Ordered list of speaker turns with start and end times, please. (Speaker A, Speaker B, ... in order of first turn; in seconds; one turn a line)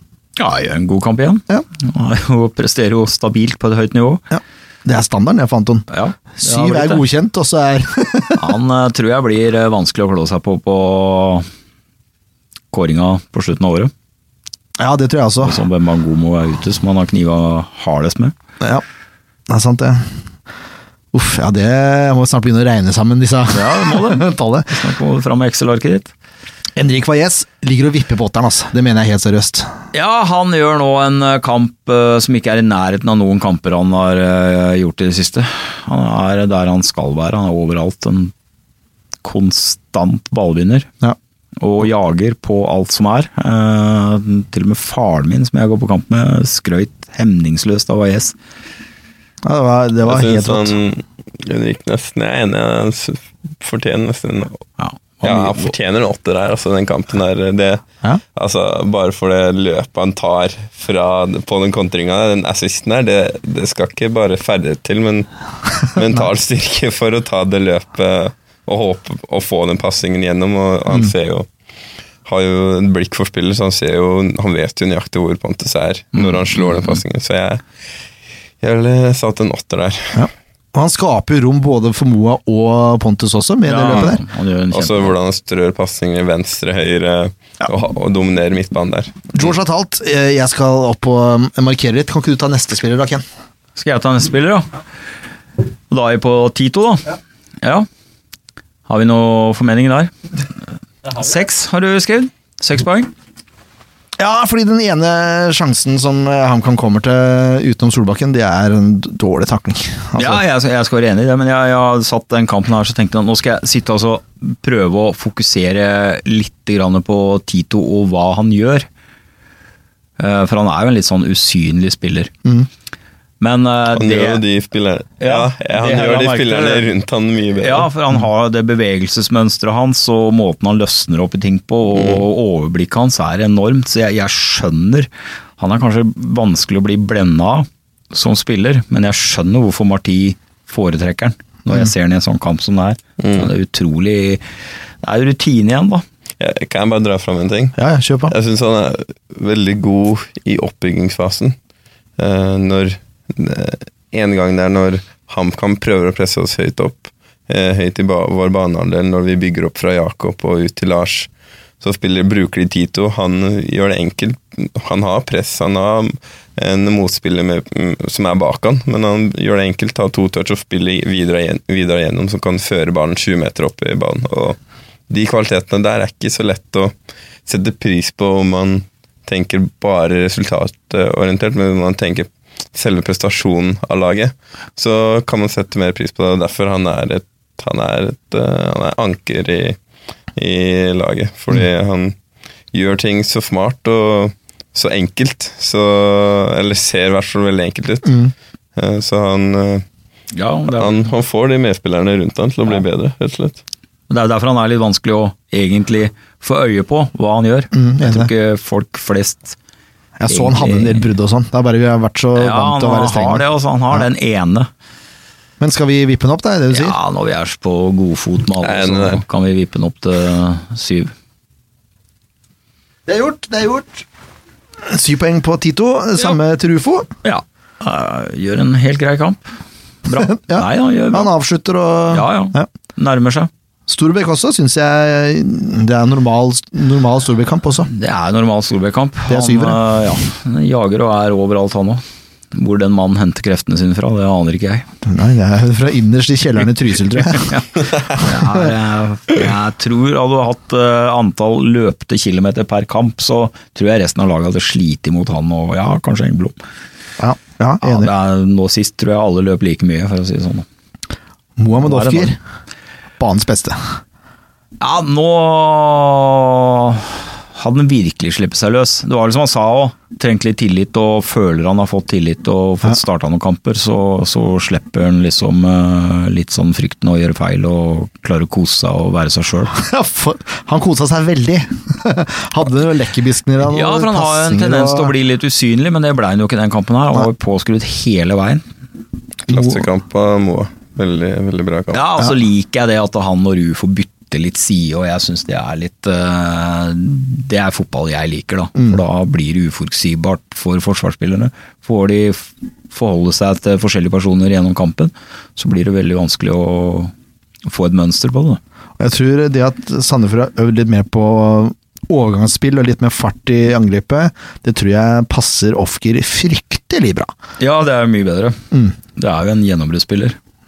Speaker A: 0.4-4.2
Speaker B: 4.3-8.5
Speaker A: 5.9-7.0
Speaker A: 8.4-11.5
Speaker A: 12.7-13.9
Speaker B: 14.8-15.6
Speaker A: 15.4-18.3
Speaker B: 19.5-20.1
Speaker B: 21.1-24.8
Speaker A: 23.5-26.1
Speaker B: 26.8-29.7
Speaker A: 29.9-38.3
Speaker A: 39.2-40.9
Speaker A: 41.6-48.3
Speaker B: 49.4-50.8
Speaker C: 50.0-54.6
Speaker A: 54.8-55.7
Speaker C: 55.2-57.8
Speaker C: 58.3-65.3
Speaker C: 65.8-71.5
Speaker C: 72.2-77.6
Speaker A: 76.1-76.8
Speaker C: 78.6-80.2
Speaker B: 80.1-84.2
Speaker A: 83.7-85.1
Speaker C: 84.7-89.2
Speaker B: 89.3-93.2
Speaker A: 93.8-94.7
Speaker A: 95.9-97.9
Speaker A: 98.9-100.1
Speaker A: 101.0-103.1
Speaker B: 104.2-110.4
Speaker A: 110.2-118.9
Speaker A: 120.2-122.3
Speaker A: 123.4-124.4
Speaker C: 123.9-127.9
Speaker A: 125.2-126.8
Speaker A: 127.5-144.4
Speaker C: 143.2-143.5
Speaker A: 145.0-146.0
Speaker C: 146.4-147.7
Speaker B: 147.8-148.3
Speaker C: 148.3-151.6
Speaker C: 152.2-176.9
Speaker C: 177.4-189.8
Speaker C: 190.3-192.2
Speaker C: 192.7-198.2
Speaker B: 198.1-198.3
Speaker C: 198.8-199.8
Speaker A: 200.3-201.0
Speaker C: 200.7-203.6
Speaker A: 204.1-209.6
Speaker B: 207.7-208.3
Speaker B: 210.2-214.0
Speaker A: 210.3-211.1
Speaker A: 212.3-214.7
Speaker B: 215.6-216.9
Speaker A: 216.7-221.1
Speaker C: 218.6-219.2
Speaker B: 223.1-224.1
Speaker B: 224.8-227.1
Speaker A: 227.2-229.4
Speaker A: 230.1-231.3
Speaker B: 230.1-232.7
Speaker A: 232.1-233.5
Speaker B: 233.9-237.9
Speaker A: 237.9-244.8
Speaker B: 239.3-239.8
Speaker B: 245.0-248.7
Speaker A: 247.3-256.5
Speaker B: 257.2-258.1
Speaker A: 257.8-260.6
Speaker B: 261.6-262.4
Speaker A: 261.8-262.3
Speaker B: 263.2-263.8
Speaker A: 264.8-279.7
Speaker B: 279.7-285.1
Speaker A: 283.6-288.6
Speaker C: 289.5-292.0
Speaker A: 291.9-307.1
Speaker A: 307.6-308.6
Speaker B: 309.0-317.3
Speaker A: 317.6-318.6
Speaker A: 319.1-320.4